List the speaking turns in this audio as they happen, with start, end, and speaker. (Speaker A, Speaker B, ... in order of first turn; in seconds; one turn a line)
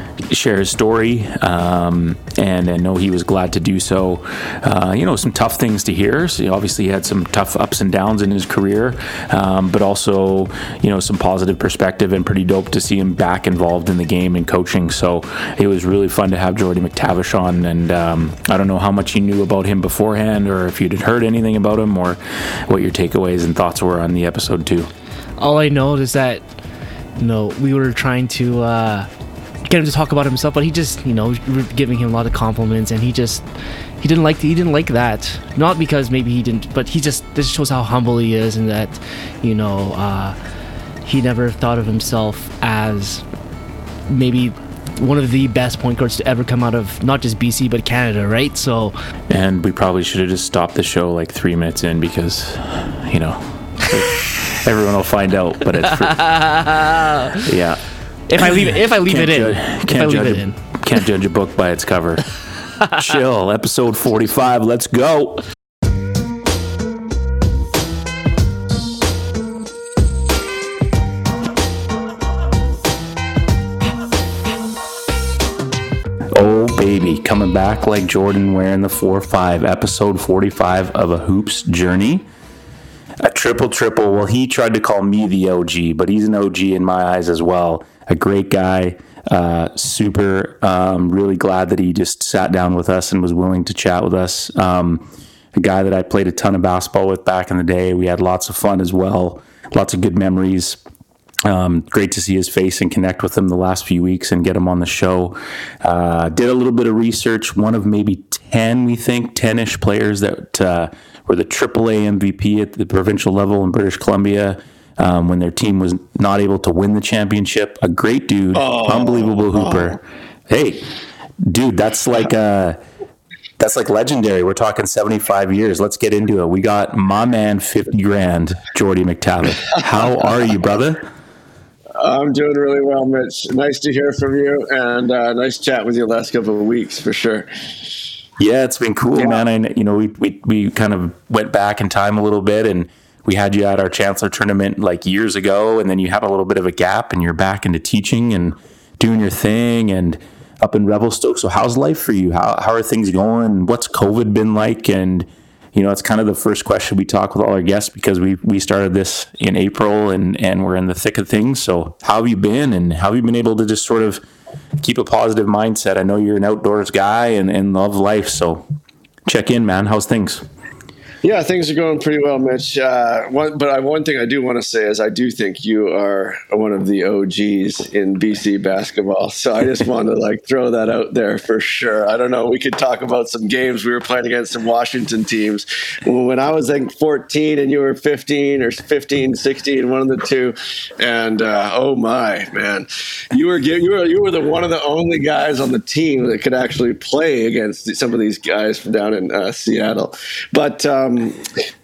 Speaker A: 0.3-24.9
Speaker B: 25.4-26.4
Speaker B: 27.2-29.1
Speaker B: 29.6-33.5
Speaker B: 34.0-40.4
Speaker B: 41.0-43.2
Speaker B: 44.1-48.9
Speaker A: 49.3-56.2
Speaker B: 56.0-57.4
Speaker A: 57.4-65.4
Speaker B: 58.3-61.0
Speaker A: 76.3-82.2
Speaker A: 83.2-100.8
Speaker A: 101.5-120.9
Speaker C: 118.5-120.0
Speaker A: 121.4-122.8
Speaker A: 123.6-131.0
Speaker C: 129.9-130.3
Speaker C: 132.0-137.5
Speaker A: 138.4-164.2
Speaker C: 139.2-139.4
Speaker A: 164.8-168.7
Speaker A: 169.3-170.4
Speaker C: 171.2-201.5